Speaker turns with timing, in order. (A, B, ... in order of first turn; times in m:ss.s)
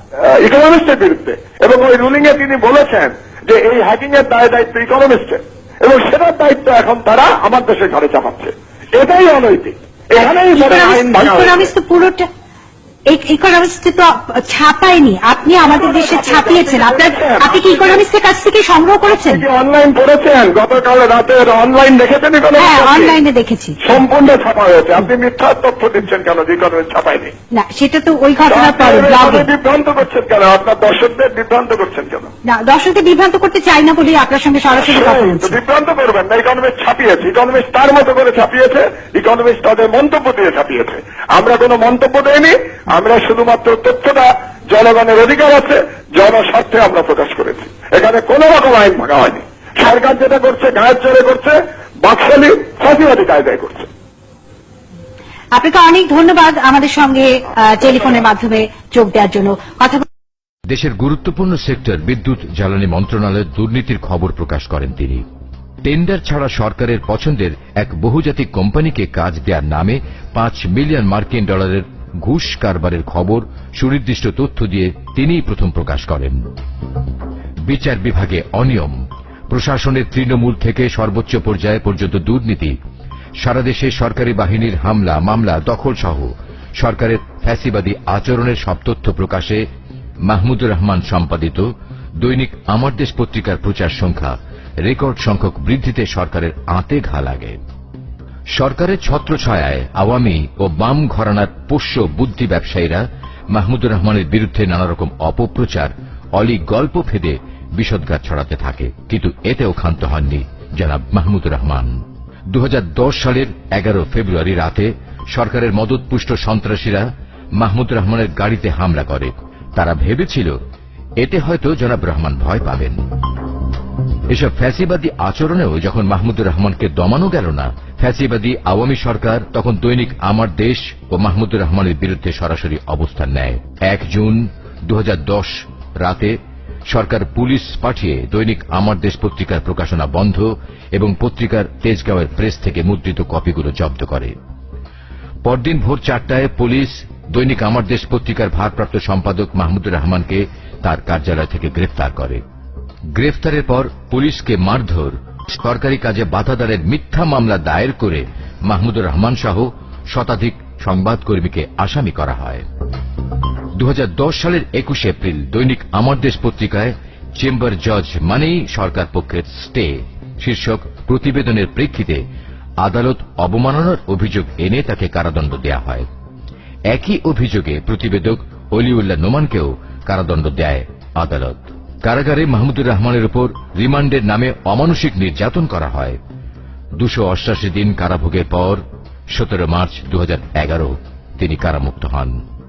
0:00.2-0:11.7 A
0:10.2-0:12.3 B
0:13.1-0:19.4 B
0:15.7-0:18.0 A
0:19.1-0:23.2 A
0:22.6-0:23.8 B
0:23.8-0:27.3 A
0:27.5-0:29.5 B
0:28.5-0:32.3 A
0:32.5-0:35.6 B
0:34.8-0:53.9 A
0:55.5-1:00.0 B
1:00.7-1:05.2 C
1:05.8-1:16.4 C
1:17.7-1:19.0 C
1:19.5-1:22.8 C
1:23.4-1:29.6 C
1:30.3-1:31.6 C
1:32.2-1:37.6 C
1:38.6-1:51.9 C
1:52.5-1:57.0 C
1:57.6-2:00.5 C
2:01.2-2:03.0 C
2:04.3-2:16.3 C
2:16.9-2:24.3 C
2:25.4-2:32.4 C
2:33.1-2:42.6 C
2:43.8-2:52.2 C
2:52.8-2:56.1 C
2:56.9-3:06.2 C
3:07.0-3:12.4 C